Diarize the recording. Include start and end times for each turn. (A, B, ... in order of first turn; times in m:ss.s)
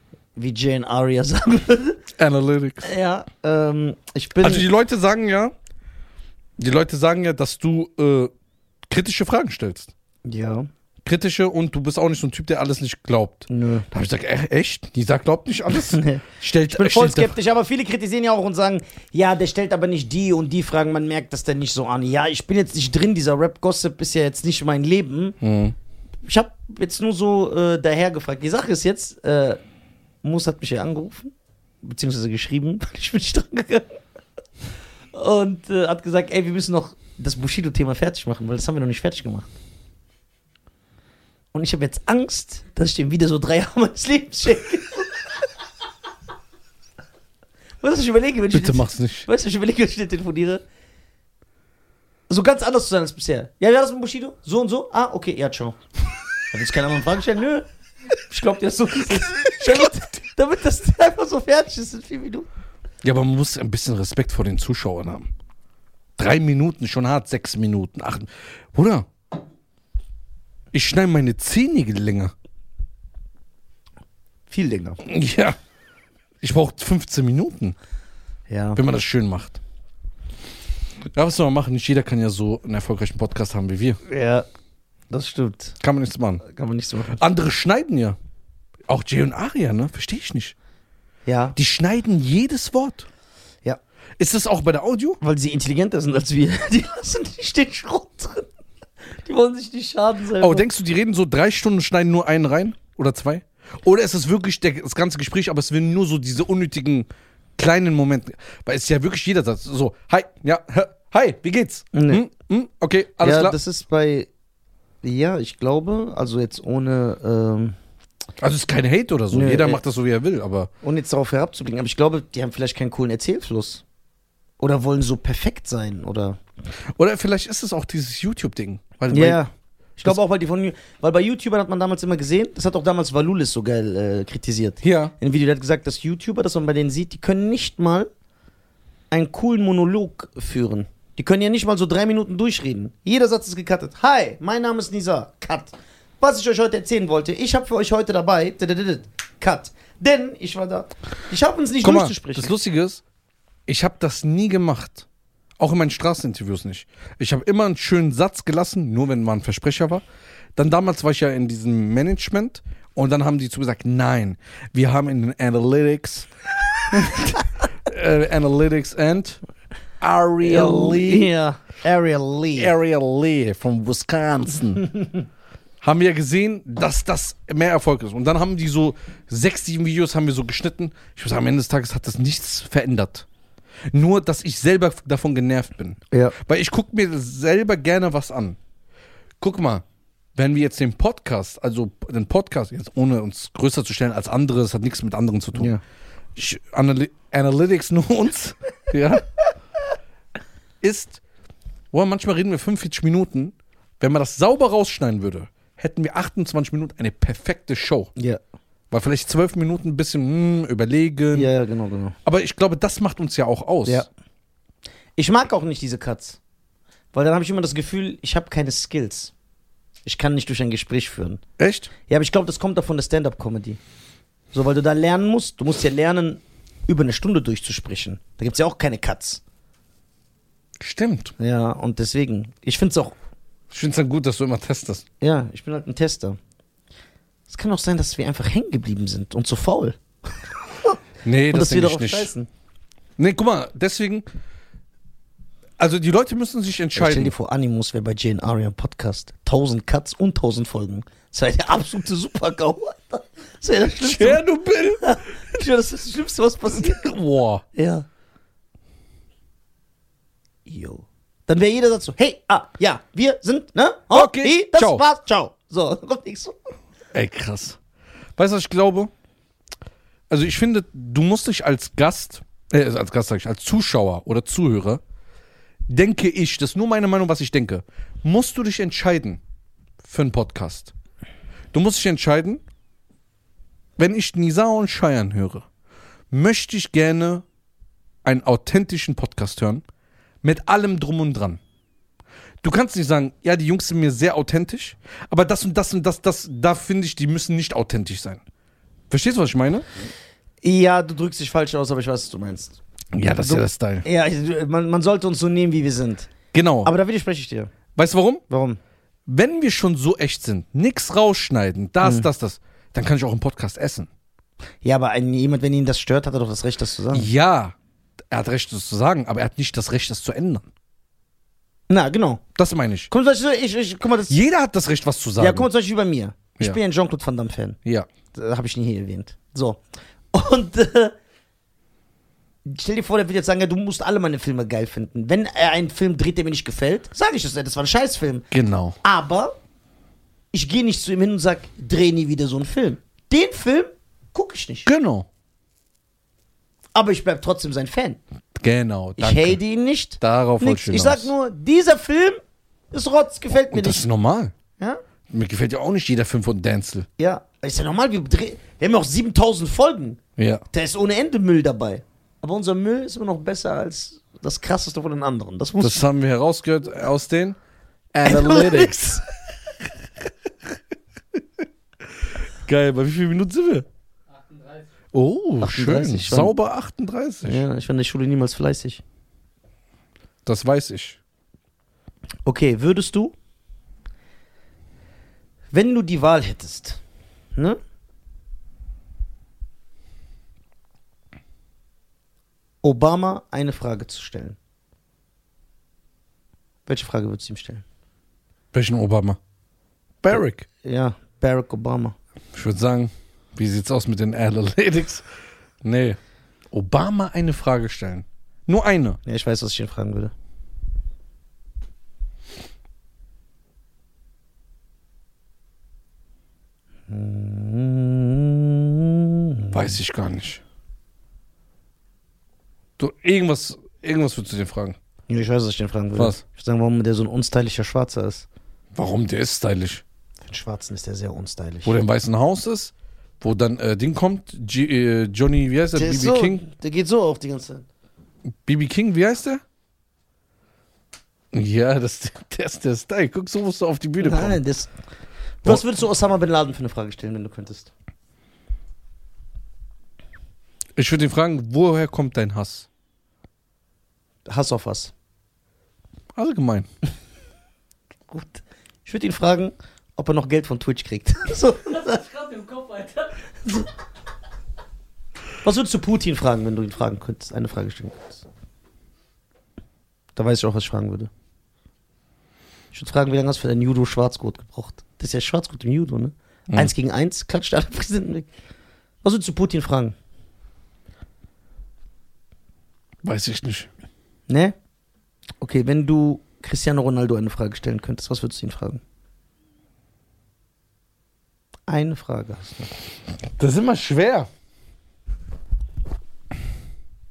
0:00.4-0:02.0 A
0:02.2-0:02.9 B
0:02.8-0:04.7 A
0:04.4-0:05.5 B
0:06.6-0:08.3 B
0:08.9-0:09.9 B
0:10.2-0:10.7 A
0:11.0-0:17.4 B
0:13.5-0:13.9 A
0:15.8-0:25.4 A
0:25.4-0:25.8 B
0:26.2-0:29.6 A
0:30.2-0:31.3 A
0:31.8-0:34.0 A
0:35.1-0:39.5 A
0:41.5-0:45.1 A
0:47.8-0:50.6 A
0:48.5-0:49.3 B
0:52.3-0:55.8 A
0:56.5-0:57.7 A
0:58.3-1:02.5 A
1:03.0-1:05.3 B
1:06.2-1:09.1 B
1:10.7-1:12.3 B
1:14.5-1:15.0 A
1:15.0-1:15.6 B
1:16.4-1:17.8 B
1:18.5-1:18.8 A
1:18.8-1:19.6 B
1:21.1-1:24.0 B
1:24.1-1:24.5 A
1:25.1-1:25.8 A
1:25.8-1:26.4 B
1:26.4-1:27.2 A
1:27.2-1:28.2 B
1:28.9-1:30.6 B
1:31.3-1:31.6 A
1:31.6-1:33.1 B
1:34.2-1:35.2 B
1:35.2-1:38.5 A
1:39.2-1:40.6 A
1:40.4-1:53.6 B
1:51.9-1:52.3 A
1:53.2-1:54.3 A
1:55.0-1:57.8 A
1:58.4-2:00.7 B
1:59.3-1:59.8 A
2:00.8-2:03.8 A
2:04.6-2:06.4 A
2:07.0-2:09.4 B
2:09.1-2:18.1 A
2:14.8-2:15.1 B
2:19.1-2:32.5 A
2:31.8-2:33.0 B
2:33.7-2:35.1 B
2:35.6-2:40.0 B
2:40.6-2:46.3 B
2:46.9-2:49.4 B
2:50.0-2:51.3 B
2:50.4-2:52.7 A
2:52.6-2:54.9 B
2:55.8-3:03.3 B
3:03.9-3:08.6 B
3:06.1-3:06.4 A
3:09.4-3:15.7 B
3:15.6-3:15.8 A
3:16.4-3:19.3 B
3:20.8-3:21.2 B
3:21.9-3:28.1 B
3:28.9-3:31.5 B
3:31.3-3:32.2 A
3:32.2-3:34.1 B
3:35.2-3:36.4 A
3:37.1-3:39.3 A
3:40.0-3:41.4 A
3:41.6-3:41.9 B
3:42.1-3:43.8 A
3:44.5-3:49.4 A
3:50.8-3:51.3 B
3:51.4-3:53.2 A
3:53.7-3:55.0 B
3:55.2-3:56.4 A
3:57.5-4:01.0 A
4:01.2-4:02.3 B
4:01.5-4:02.5 A
4:03.2-4:04.3 B
4:05.8-4:07.3 B
4:07.0-4:14.4 A
4:14.0-4:15.2 B
4:15.0-4:17.1 A
4:16.7-4:17.6 B
4:17.7-4:18.1 A
4:20.7-4:26.6 A
4:24.1-4:25.0 B
4:27.1-4:27.8 B
4:28.4-4:29.1 B
4:30.3-4:35.0 B
4:35.9-4:39.4 B
4:40.0-4:40.9 B
4:41.7-4:42.6 B
4:44.0-4:45.6 B
4:46.3-4:47.4 B
4:48.2-4:49.8 B
4:50.4-4:51.6 B
4:52.6-4:58.4 B
4:59.1-4:59.9 B
5:00.6-5:02.8 A
5:03.1-5:04.0 B
5:03.4-5:06.3 A
5:06.5-5:06.9 B
5:06.8-5:07.7 A
5:08.0-5:08.4 B
5:08.5-5:08.8 A
5:09.3-5:14.1 B
5:12.0-5:12.3 A
5:14.8-5:17.3 A
5:17.1-5:17.8 B
5:18.3-5:20.7 B
5:21.9-5:22.4 A
5:22.6-5:23.1 B
5:23.1-5:24.4 A
5:24.3-5:25.7 B
5:25.4-5:27.8 A
5:28.3-5:29.8 A
5:30.3-5:31.2 A
5:32.6-5:38.5 A
5:38.5-5:39.0 B
5:39.0-5:39.5 A
5:40.5-5:44.9 A
5:44.9-5:45.3 B
5:47.0-5:48.2 A
5:48.6-5:49.6 B
5:49.2-5:52.4 A
5:50.2-5:51.3 B
5:52.9-5:54.0 A
5:53.7-5:54.5 B
5:55.3-5:57.1 B
5:57.2-6:00.2 A
6:00.4-6:00.6 B
6:00.7-6:06.0 A
6:05.8-6:07.6 B
6:08.1-6:09.0 B
6:08.2-6:09.2 A
6:12.2-6:13.9 B
6:14.3-6:14.9 C
6:15.1-6:17.6 B
6:15.6-6:16.5 A
6:17.4-6:19.0 A
6:20.4-6:21.2 B
6:22.4-6:23.3 A
6:25.7-6:27.0 A
6:32.8-6:34.6 A
6:36.9-6:37.8 A
6:38.7-6:39.4 B
6:40.2-6:40.7 B
6:40.3-6:42.2 A
6:42.5-6:45.3 B
6:45.8-6:46.2 B
6:46.7-6:49.2 B
6:49.3-6:50.3 A
6:57.1-7:00.0 A
6:59.7-7:00.6 B
7:03.0-7:05.0 B
7:05.3-7:08.5 A
7:06.2-7:06.4 B
7:09.0-7:10.0 B
7:10.4-7:12.0 A
7:11.8-7:16.6 B
7:16.0-7:17.8 A
7:18.6-7:19.6 B
7:21.5-7:24.6 B
7:24.2-7:24.9 A
7:25.6-7:27.9 A
7:31.0-7:32.9 B
7:34.5-7:35.1 A
7:36.4-7:36.9 B
7:38.3-7:42.2 A
7:41.9-7:43.5 C
7:45.6-7:48.4 A
7:50.4-7:51.3 A
7:52.9-7:58.5 A
7:59.2-8:00.2 A
8:03.2-8:03.9 B
8:04.5-8:04.8 A
8:05.6-8:09.0 A
8:11.9-8:12.9 A
8:13.6-8:14.5 B